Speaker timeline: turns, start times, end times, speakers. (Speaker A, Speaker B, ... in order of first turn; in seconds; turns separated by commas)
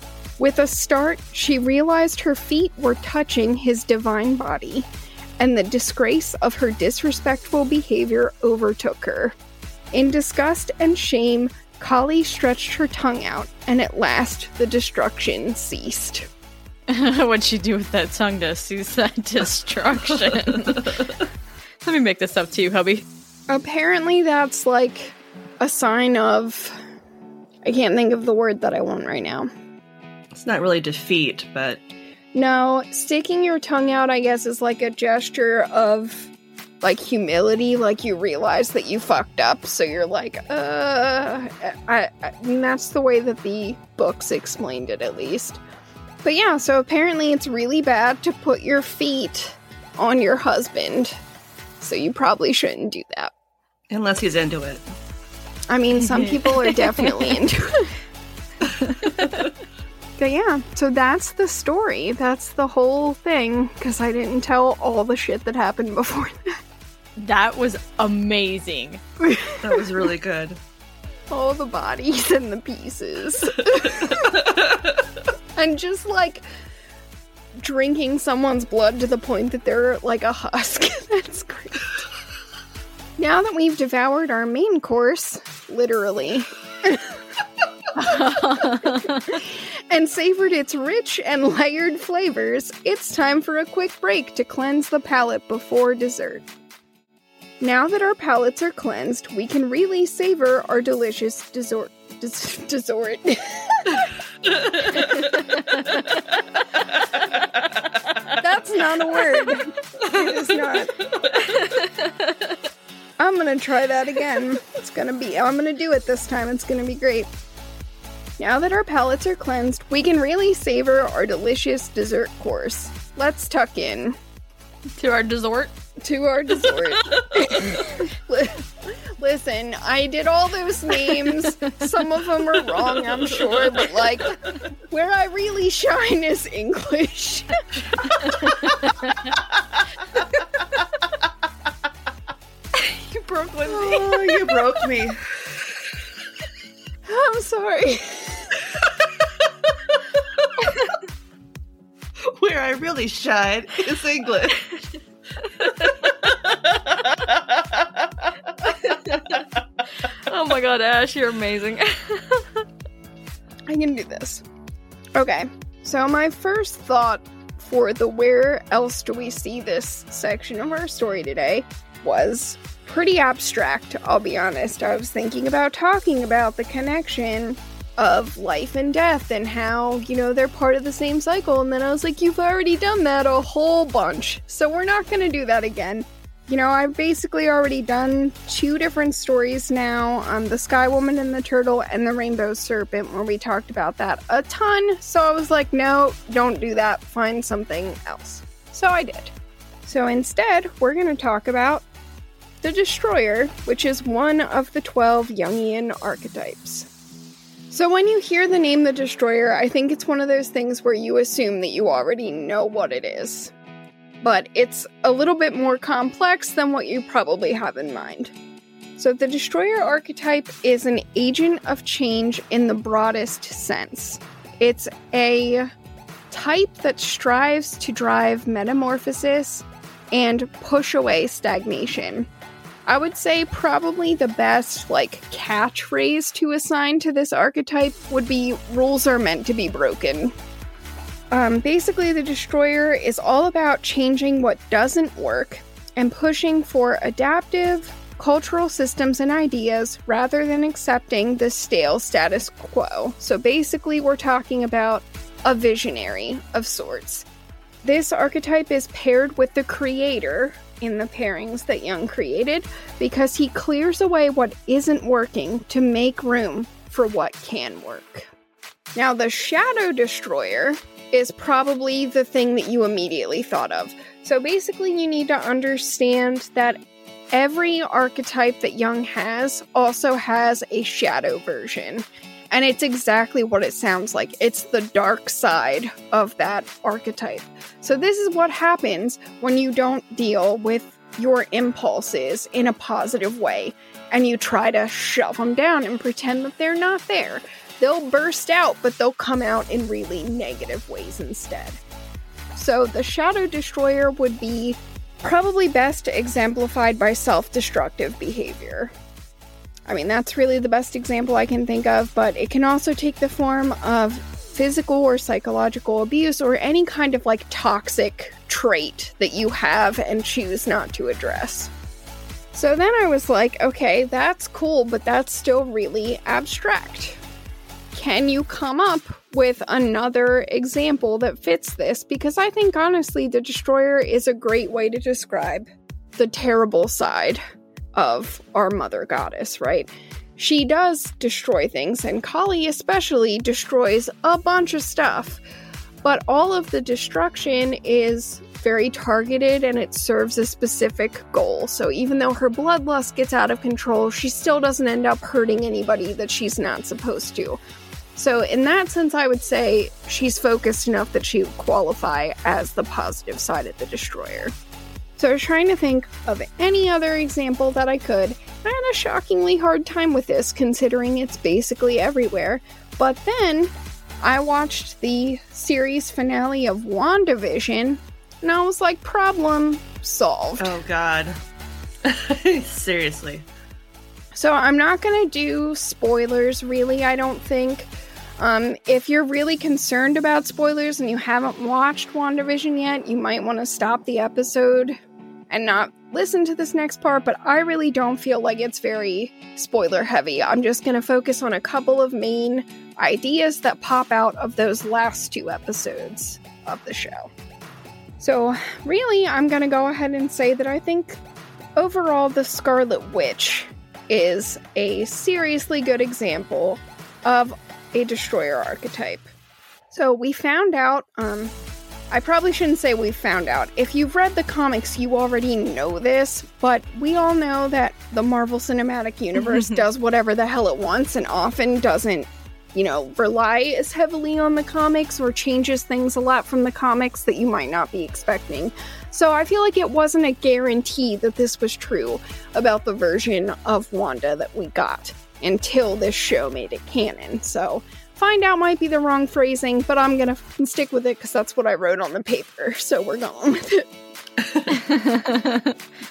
Speaker A: 0.4-4.9, Speaker A: 5.4-9.3, Speaker A: 9.9-16.3, Speaker B: 16.9-20.9, Speaker C: 20.3-21.1, Speaker B: 21.8-23.1, Speaker A: 23.5-26.8, Speaker A: 27.6-29.5, Speaker C: 30.3-31.8, Speaker A: 32.3-36.3, Speaker A: 36.8-45.6, Speaker A: 46.2-51.2, Speaker A: 51.8-53.3, Speaker C: 53.9-54.8, Speaker A: 55.7-57.9, Speaker C: 56.0-56.5, Speaker B: 59.0-59.3, Speaker A: 60.2-66.6, Speaker B: 67.2-69.0, Speaker A: 69.2-69.5, Speaker C: 69.6-70.6, Speaker A: 71.3-74.3, Speaker C: 74.0-74.8, Speaker A: 75.5-76.5, Speaker A: 77.6-81.9, Speaker A: 83.2-87.1, Speaker B: 88.0-89.4, Speaker A: 89.3-96.5, Speaker A: 97.6-103.9, Speaker C: 104.5-105.2, Speaker A: 108.4-110.9, Speaker B: 111.5-112.6, Speaker A: 113.2-117.3, Speaker A: 118.4-124.2, Speaker B: 125.0-125.7, Speaker A: 126.0-137.5, Speaker B: 142.8-144.4, Speaker A: 143.7-144.5, Speaker C: 144.1-145.2, Speaker A: 147.1-148.6, Speaker C: 152.2-154.6, Speaker B: 155.4-156.1, Speaker C: 156.2-158.0, Speaker B: 158.8-159.3, Speaker B: 160.3-162.6, Speaker A: 163.7-164.4, Speaker A: 165.1-199.3, Speaker A: 199.9-201.8, Speaker A: 202.6-206.9, Speaker A: 207.7-213.5, Speaker A: 214.2-218.3, Speaker A: 219.0-225.7, Speaker A: 226.3-232.3, Speaker A: 232.9-240.3, Speaker A: 241.3-257.3, Speaker A: 257.8-268.3, Speaker A: 268.9-276.8, Speaker A: 277.3-301.8, Speaker A: 302.6-308.9, Speaker A: 309.9-321.7, Speaker A: 322.5-327.2, Speaker A: 327.9-337.4, Speaker A: 337.9-345.4, Speaker A: 346.0-357.6, Speaker A: 358.1-364.5, Speaker A: 365.2-380.8, Speaker C: 380.6-381.4, Speaker C: 382.0-383.4, Speaker A: 384.3-395.0, Speaker A: 395.5-407.3, Speaker A: 408.2-411.2, Speaker A: 411.8-419.3, Speaker A: 419.9-421.5, Speaker A: 422.1-453.9, Speaker B: 429.4-429.8, Speaker B: 454.7-455.7